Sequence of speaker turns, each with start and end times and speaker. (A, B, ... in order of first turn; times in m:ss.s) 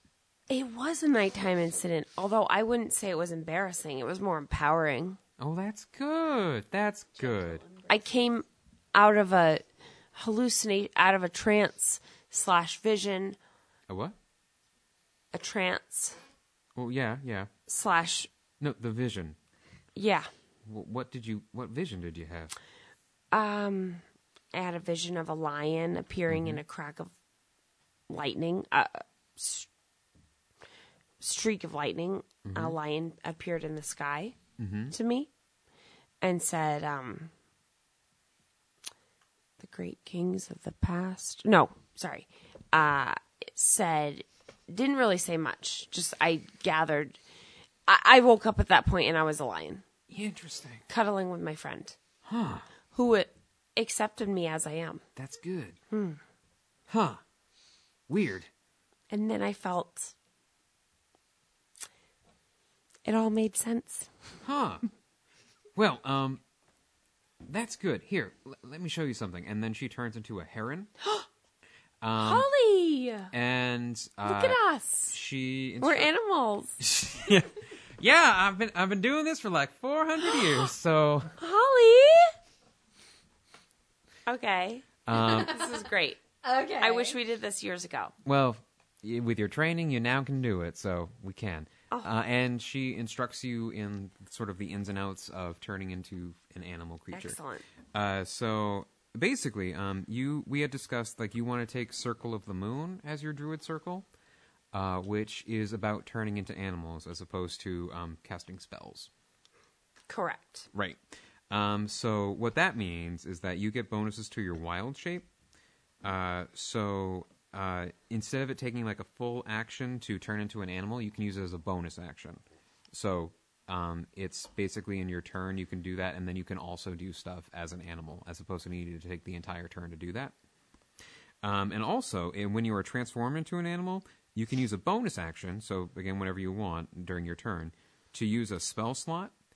0:00.5-0:05.2 A
0:05.4-0:07.6 B
0:07.2-0:08.0 C
0:07.9-0:13.4 A
0:13.9-0:14.2 B
0:15.3-0:16.2 A
0:16.8-0:17.5 B
0:17.7-0:18.3 A
0:18.6-0:19.4 B
0:19.9-0:20.3 A
0:20.6-0:22.5 B
0:23.3-0:27.1 A
0:26.3-0:26.6 B
0:28.1-0:29.7 A
0:31.2-0:34.4 A
0:32.4-0:32.8 B
0:34.6-0:34.9 B
0:34.9-0:35.3 A
0:36.2-0:37.3 A
0:39.6-0:47.2 A
0:47.9-0:49.8 A
0:50.1-0:50.8 B
0:50.9-0:52.0 A
0:52.2-0:52.7 B
0:52.9-0:55.0 A
0:55.2-0:55.8 B
0:55.9-0:56.2 A
0:56.9-0:57.2 B
0:58.1-0:58.5 B
0:59.1-1:00.1 A
1:03.0-1:04.1 A
1:04.4-1:04.8 B
1:05.7-1:06.4 B
1:07.4-1:10.9 B
1:11.0-1:11.3 A
1:12.0-1:12.5 B
1:12.2-1:13.3 A
1:13.3-1:16.1 B
1:14.2-1:15.2 A
1:15.8-1:16.8 A
1:16.8-1:21.3 B
1:21.4-1:22.3 A
1:24.2-1:26.2 A
1:25.1-1:25.6 B
1:25.2-1:25.7 C
1:26.4-1:27.2 C
1:26.8-1:28.1 A
1:28.2-1:37.4 B
1:37.1-1:37.6 A
1:37.9-1:44.0 B
1:44.7-1:49.1 B
1:50.1-1:50.7 A
1:50.7-1:55.3 B
1:56.0-2:10.3 B
2:11.4-2:19.3 B